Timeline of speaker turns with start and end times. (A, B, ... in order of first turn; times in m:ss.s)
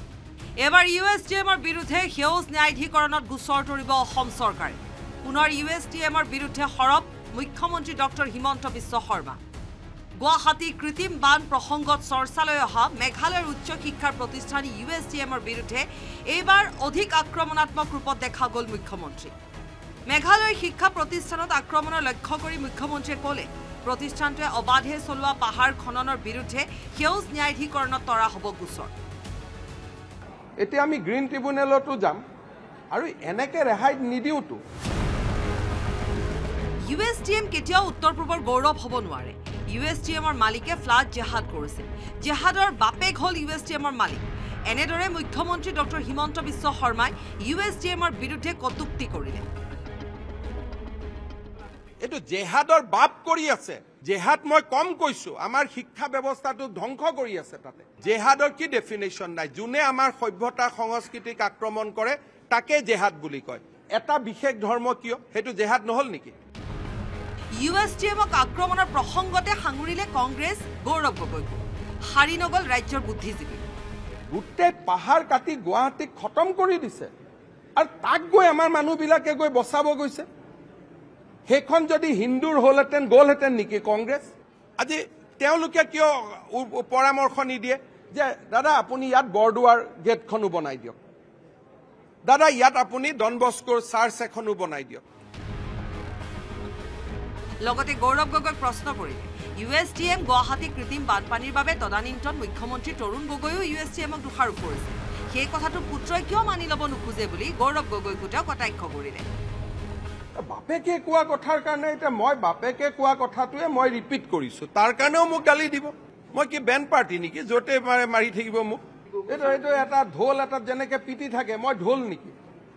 0:00.6-0:09.4 A
0:10.2-0:19.3 A
0:20.1-0:28.9 A
0:30.6-0:32.2 B
0:32.9-0:34.6 B
0:36.8-0:49.5 A
0:52.0-1:06.3 B
1:07.6-1:13.7 A
1:14.3-1:17.1 B
1:17.8-1:20.3 B
1:21.5-1:31.0 B
1:32.3-1:35.0 B
1:37.6-1:49.3 A
1:50.4-2:02.4 B